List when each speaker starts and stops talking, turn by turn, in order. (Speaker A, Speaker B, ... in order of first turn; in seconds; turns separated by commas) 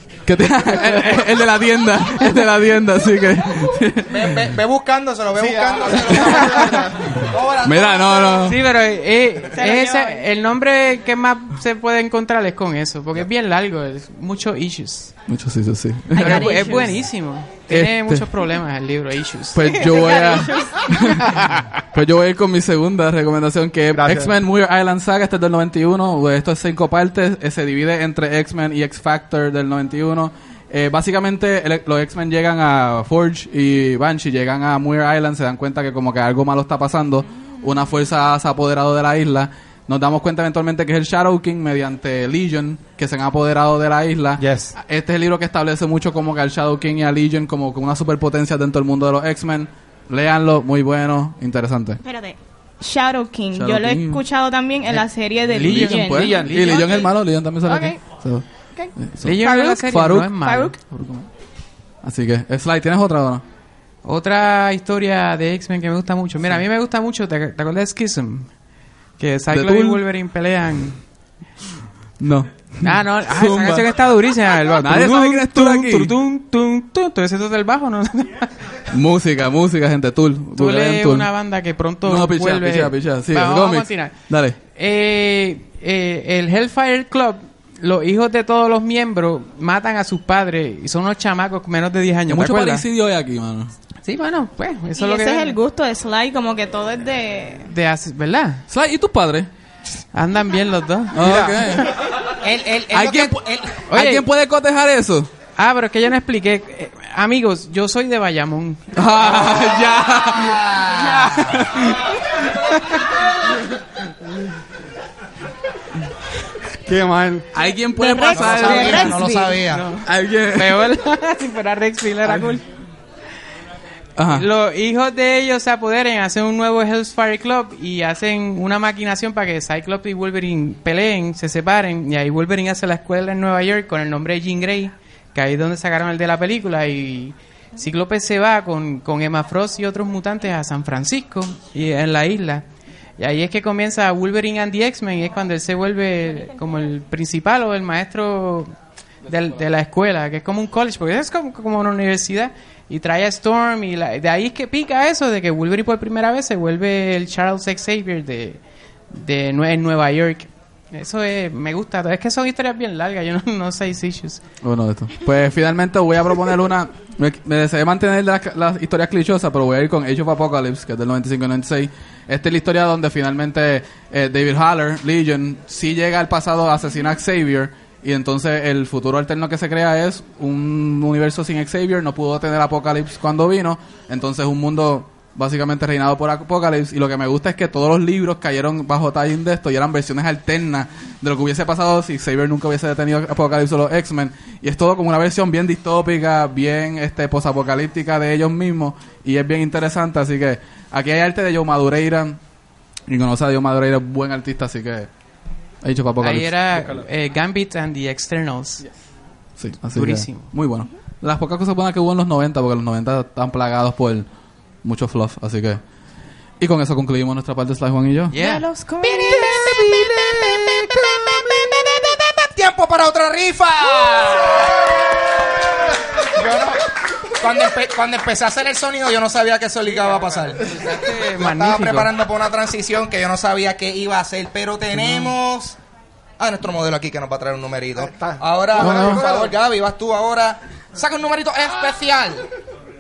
Speaker A: 0.2-4.4, Speaker B: 0.7-1.2, Speaker C: 4.1-8.5, Speaker D: 5.4-7.1, Speaker A: 7.2-8.6, Speaker B: 8.4-15.1, Speaker E: 9.6-10.2, Speaker A: 15.3-16.8, Speaker E: 16.1-16.9, Speaker B: 16.2-19.8, Speaker A: 17.7-18.3, Speaker A: 19.5-52.0, Speaker E: 19.6-21.2, Speaker B: 21.2-21.7, Speaker D: 23.9-24.3, Speaker D: 44.4-44.7, Speaker E: 52.0-57.1, Speaker A: 53.5-54.2, Speaker B: 55.5-57.1, Speaker A: 55.5-58.5, Speaker D: 56.1-56.7, Speaker E: 57.7-58.0, Speaker A: 59.0-61.3, Speaker B: 59.2-60.8, Speaker E: 60.5-60.8, Speaker A: 62.0-63.4, Speaker B: 64.0-68.5, Speaker B: 69.2-71.0, Speaker A: 69.5-70.0, Speaker A: 72.2-73.9, Speaker B: 72.8-78.5, Speaker A: 74.8-76.1, Speaker A: 78.9-81.3, Speaker B: 80.6-92.8, Speaker A: 82.0-84.6, Speaker A: 92.3-93.7, Speaker B: 94.0-95.6, Speaker E: 95.0-97.7, Speaker B: 97.7-98.6, Speaker A: 98.7-99.5, Speaker B: 100.1-101.4, Speaker A: 101.1-101.9, Speaker D: 101.2-101.6, Speaker C: 102.4-103.9, Speaker A: 102.9-103.4, Speaker B: 103.9-104.3, Speaker A: 103.9-105.3, Speaker B: 105.6-108.8, Speaker A: 108.9-112.2, Speaker C: 110.4-111.7, Speaker D: 116.9-117.5, Speaker A: 117.5-119.3, Speaker E: 118.0-119.6, Speaker C: 118.3-119.9, Speaker B: 118.8-122.7, Speaker A: 120.0-120.9, Speaker A: 124.2-124.5, Speaker B: 124.3-142.6, Speaker B: 143.2-148.7, Speaker B: 149.3-158.6, Speaker B: 159.1-164.4, Speaker A: 164.6-202.4, Speaker A: 203.1-205.1, Speaker A: 205.8-206.5, Speaker B: 206.2-208.8, Speaker D: 206.8-207.1, Speaker A: 209.6-214.3, Speaker B: 209.9-210.5, Speaker A: 214.8-215.8, Speaker A: 216.6-218.4, Speaker B: 218.3-218.7, Speaker E: 218.3-219.7, Speaker C: 219.0-235.8, Speaker B: 230.7-232.1, Speaker C: 236.4-242.5, Speaker D: 238.0-239.5, Speaker B: 238.8-239.2